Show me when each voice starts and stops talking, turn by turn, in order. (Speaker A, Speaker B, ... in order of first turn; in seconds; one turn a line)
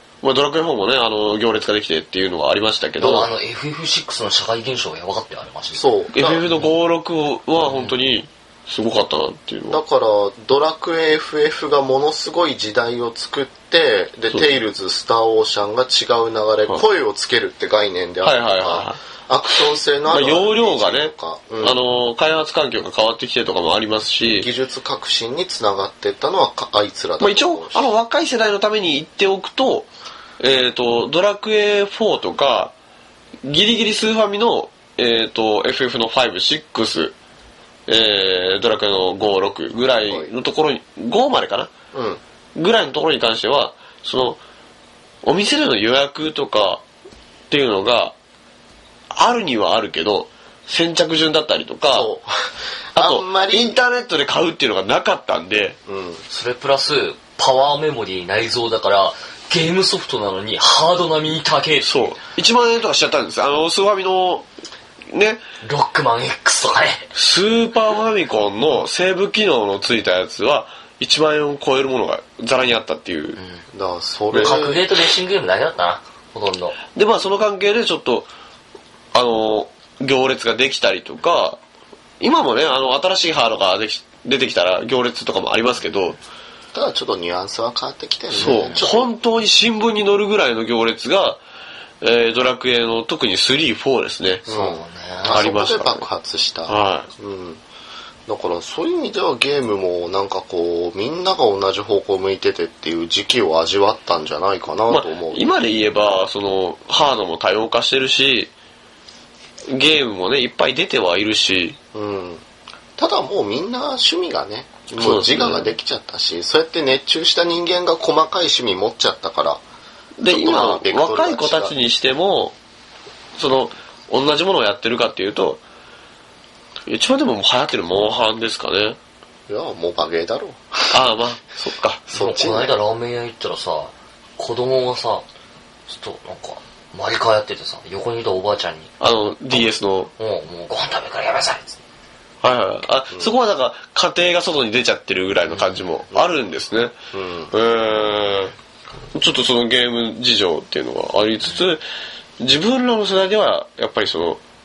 Speaker A: 0.2-3.3
Speaker B: 3.0-5.8
Speaker C: 5.7-6.4
Speaker A: 6.1-9.8
Speaker B: 7.6-7.9
Speaker C: 9.7-21.8
Speaker A: 18.2-19.0
Speaker A: 20.1-24.5
Speaker C: 24.3-27.8
Speaker A: 27.2-29.9
Speaker A: 30.4-32.7
Speaker A: 33.4-37.1
Speaker A: 37.9-41.7
Speaker C: 41.9-42.2
Speaker A: 42.5-44.4
Speaker A: 45.2-46.8
Speaker A: 47.5-48.1
Speaker A: 49.1-52.1
Speaker C: 51.9-53.8
Speaker A: 52.9-55.8
Speaker C: 55.9-56.2
Speaker B: 56.3-62.0
Speaker A: 61.8-64.5
Speaker A: 65.1-65.4
Speaker B: 65.6-67.1
Speaker A: 67.1-73.4
Speaker C: 73.7-74.9
Speaker A: 74.3-74.6
Speaker B: 74.3-76.8
Speaker A: 76.9-78.3
Speaker A: 79.1-81.6
Speaker A: 82.2-86.2
Speaker C: 86.7-89.1
Speaker A: 88.4-91.4
Speaker B: 88.4-88.8
Speaker A: 92.0-94.4
Speaker B: 94.5-95.4
Speaker C: 94.5-97.6
Speaker A: 95.2-96.0
Speaker A: 96.7-97.1
Speaker C: 98.3-105.5
Speaker A: 104.9-108.5
Speaker A: 109.7-111.8
Speaker C: 111.9-112.4
Speaker C: 113.0-119.6
Speaker A: 115.0-115.7
Speaker A: 120.2-122.5
Speaker C: 120.3-121.7
Speaker A: 123.4-125.6
Speaker A: 126.9-129.0
Speaker C: 129.5-130.8
Speaker A: 130.9-132.0
Speaker C: 132.1-132.7
Speaker B: 132.1-135.2
Speaker B: 135.9-138.9
Speaker A: 139.0-140.1
Speaker B: 140.2-141.8
Speaker A: 142.4-146.9
Speaker C: 147.1-147.5
Speaker A: 147.5-148.5
Speaker A: 149.1-151.8
Speaker A: 152.4-154.4